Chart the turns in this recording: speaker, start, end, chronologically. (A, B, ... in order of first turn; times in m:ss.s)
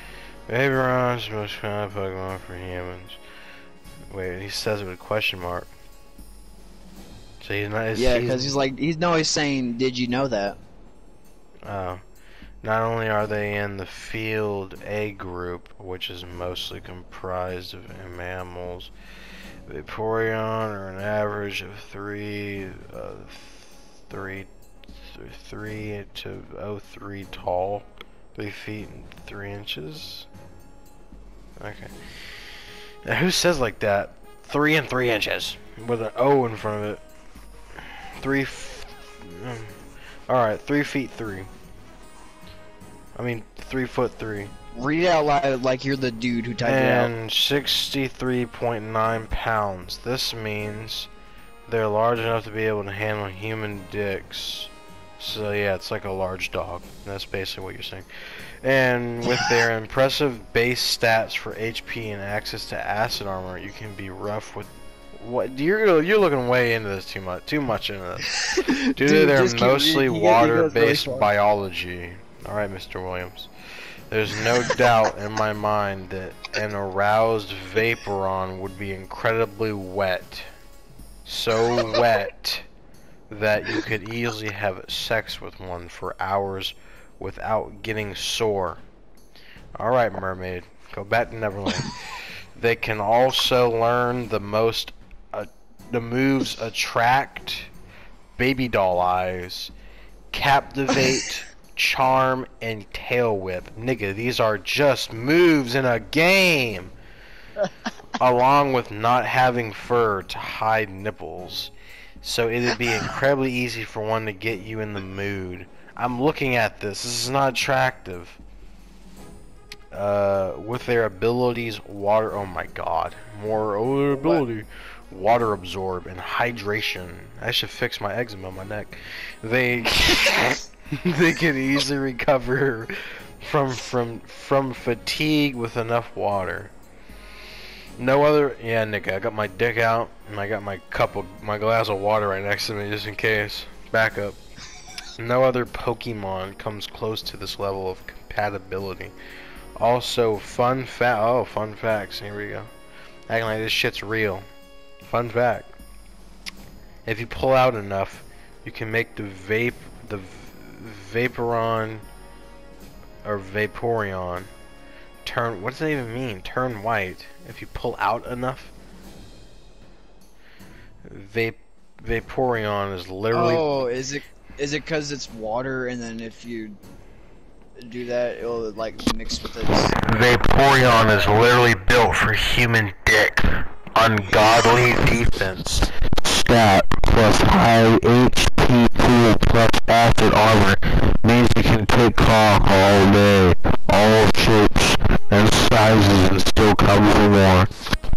0:00.5-0:03.2 A
0:04.1-0:05.7 A
0:07.4-0:08.5 A
0:07.9-0:10.6 B
0:11.6-0:12.0 A
0:12.6-0:18.9 A
0:19.7-0:24.5 A
0:25.0-0:30.3 A
0:31.6-0:31.9 A
0:33.0-0:37.0 A
0:38.2-0:39.8 A
0:40.3-0:41.5 A
0:43.2-0:44.5 A
0:44.7-0:47.1 B
0:46.6-0:51.1 A
0:51.6-0:58.1 A
0:58.6-1:13.5 A
1:08.4-1:11.3 B
1:14.1-1:20.5 A
1:21.2-1:22.6 A
1:23.3-1:28.8 A
1:29.8-1:32.0 A
1:32.6-1:37.7 A
1:38.4-1:39.7 A
1:40.3-1:46.9 A
1:48.2-1:58.4 A
1:59.9-2:16.7 A
2:04.1-2:04.4 B
2:18.0-2:24.4 A
2:25.2-2:29.1 A
2:29.8-2:32.7 A
2:33.3-2:34.4 A
2:35.0-2:35.8 A
2:37.0-2:42.0 A
2:43.2-2:44.5 A
2:45.2-2:48.7 A
2:51.1-2:53.7 A
2:53.3-2:56.8 B
2:57.8-2:59.9 B
3:00.0-3:03.4 A
3:03.9-3:17.7 A